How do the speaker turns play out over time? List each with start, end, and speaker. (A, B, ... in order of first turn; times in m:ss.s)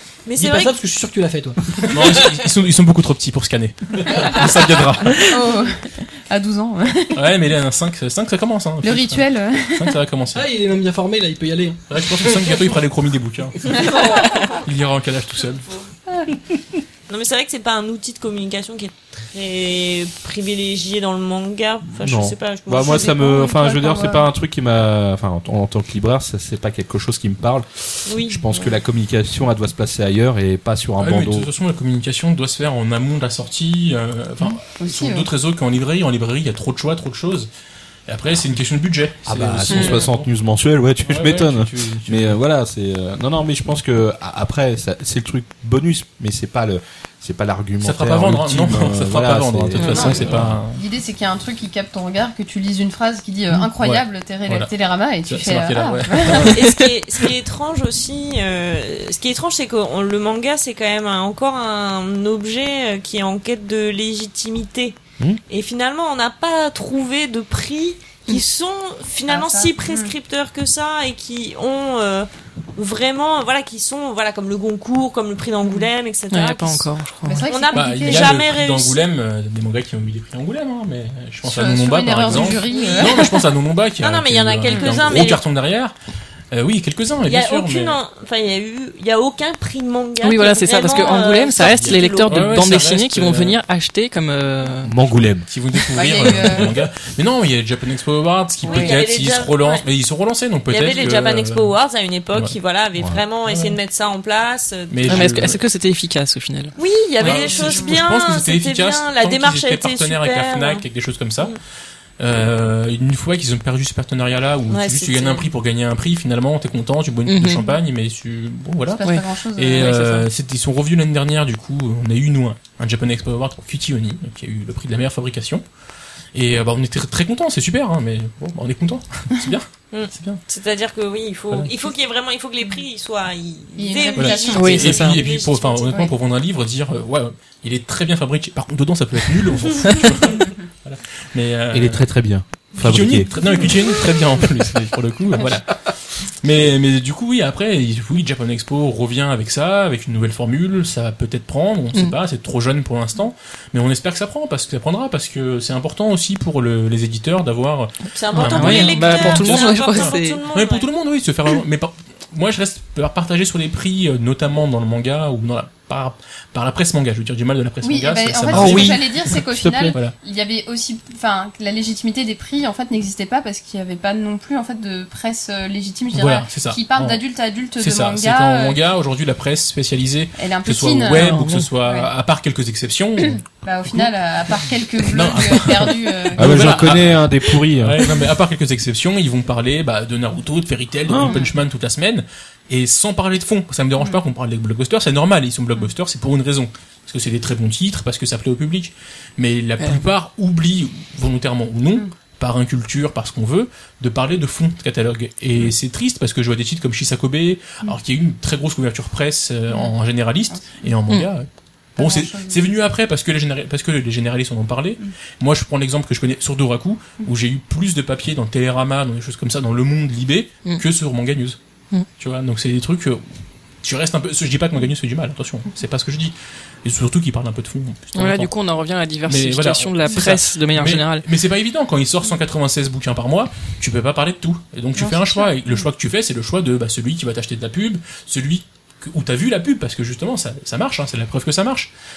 0:00.3-0:00.8 A
0:00.4-0:02.4 B
0:01.9-0:05.6 C
0:04.1-0:04.5 D
0:05.1-0:07.2 D
0:07.2-0:10.4 C
0:08.8-0:10.0 D
0:10.4-0:12.8 B
0:11.9-0:15.7 C
0:13.8-0:14.5 D
0:14.1-0:14.4 A
0:17.1-0:23.2 A
0:21.9-0:31.5 E
0:22.8-0:24.3 D
0:28.1-0:28.8 A
0:31.0-0:37.5 C
0:34.8-0:35.3 D
0:38.1-0:40.3 C
0:39.2-0:50.6 E
0:39.7-0:40.1 F
0:41.1-0:42.4 C
0:47.8-0:50.8 C
0:49.8-0:56.6 D
0:53.5-0:56.6 C
0:56.4-1:19.0 A
1:09.3-1:10.1 D
1:16.3-1:17.5 F
1:17.2-1:18.4 D
1:17.7-1:26.0 C
1:21.4-1:23.4 D
1:22.3-1:23.4 A
1:24.0-1:25.4 A
1:26.5-1:28.0 C
1:27.3-1:32.5 A
1:30.2-1:35.0 F
1:31.8-1:33.6 C
1:34.8-1:35.4 E
1:35.4-1:41.7 C
1:35.9-1:36.8 D
1:38.6-1:39.8 A
1:38.7-1:39.0 D
1:40.7-1:45.5 A
1:43.4-1:43.8 C
1:44.9-1:45.6 C
1:45.1-1:47.4 F
1:46.8-1:50.8 A
1:47.2-1:51.6 C
1:52.2-2:05.6 C
1:54.7-1:55.5 A
1:57.3-1:57.7 F
1:58.9-2:00.3 D
2:06.3-2:10.4 C
2:09.9-2:16.1 A
2:13.8-2:15.1 D
2:14.2-2:22.1 C
2:14.5-2:15.2 F
2:21.7-2:23.3 E
2:22.8-2:25.8 C
2:26.4-2:49.4 C
2:38.1-2:40.9 A
2:38.3-2:40.4 F
2:47.8-2:58.8 D
2:48.5-2:50.0 E
2:56.1-2:57.2 C
2:57.8-3:04.1 C
3:00.4-3:02.1 D
3:01.2-3:01.7 F
3:03.2-3:07.1 D
3:05.1-3:41.6 C
3:06.4-3:08.0 E
3:11.1-3:11.4 E
3:30.5-3:30.8 D
3:32.0-3:32.7 D
3:42.2-3:43.2 C
3:43.8-3:48.5 C
3:48.2-3:51.3 F
3:49.2-4:01.9 C
3:55.0-3:55.8 D